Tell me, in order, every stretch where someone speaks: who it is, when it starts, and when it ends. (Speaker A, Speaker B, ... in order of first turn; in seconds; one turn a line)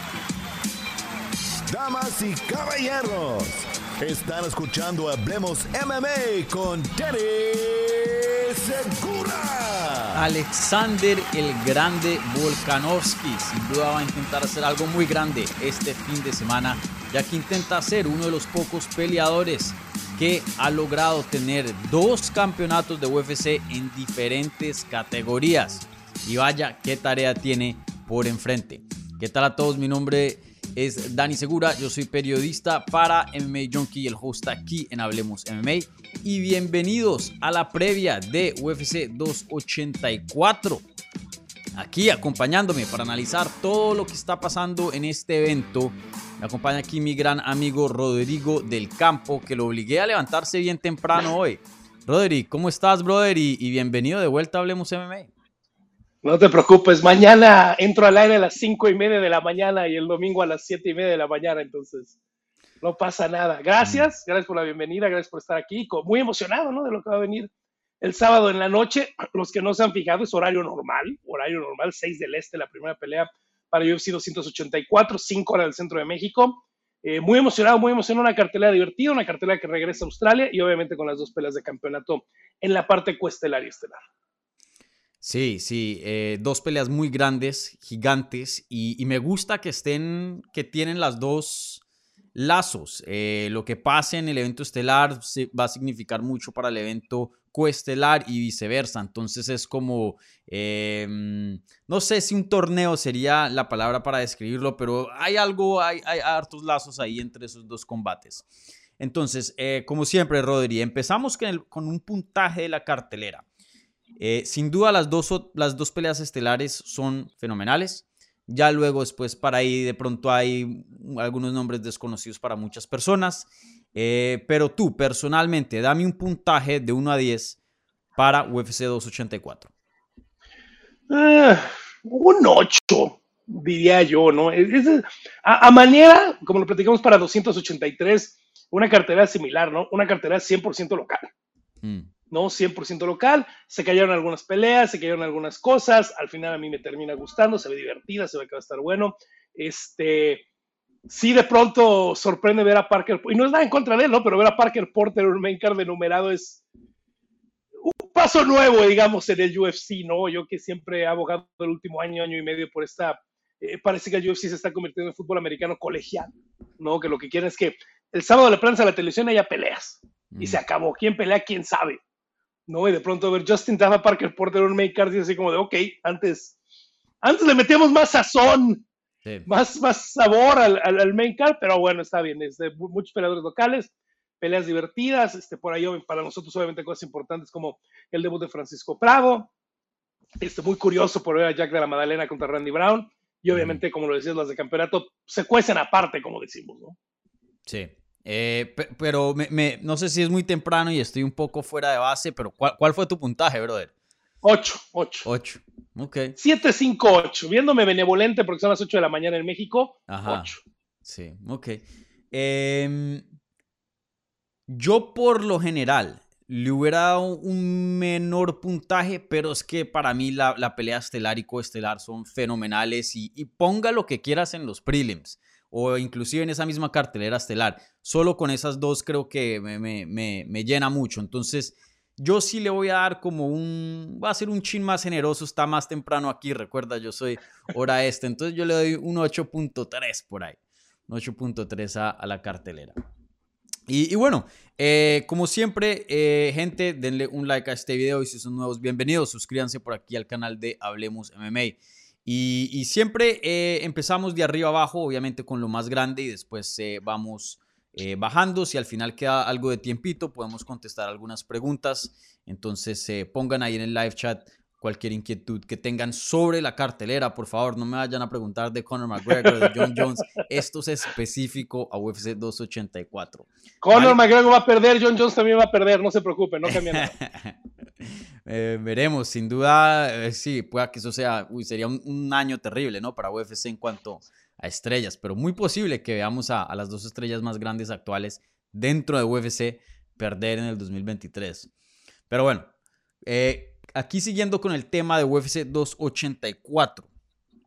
Speaker A: 1.7-10.2
Speaker B: 10.1-40.8
Speaker B: 41.8-55.3
Speaker C: 56.2-62.2
Speaker C: 62.8-67.5
Speaker B: 63.8-64.1
Speaker C: 68.0-84.0
Speaker B: 85.2-91.8
Speaker B: 92.3-108.5
Speaker B: 109.0-113.4
Speaker B: 114.2-127.6
Speaker B: 128.2-129.7
Speaker C: 131.1-141.3
Speaker B: 141.8-142.1
Speaker C: 142.3-150.4
Speaker C: 151.1-156.6
Speaker C: 157.8-172.0
Speaker B: 170.3-170.6
Speaker C: 172.7-176.6
Speaker C: 177.2-178.9
Speaker C: 179.5-189.5
Speaker C: 190.4-197.0
Speaker B: 193.5-193.8
Speaker B: 197.7-203.9
Speaker C: 204.4-205.3
Speaker B: 205.2-206.3
Speaker C: 206.4-210.6
Speaker B: 210.1-210.5
Speaker B: 211.1-213.2
Speaker B: 214.7-242.9
Speaker B: 243.9-274.2
Speaker C: 269.5-269.8
Speaker C: 273.8-277.1
Speaker B: 276.7-291.7
Speaker B: 292.3-292.7
Speaker B: 293.2-297.1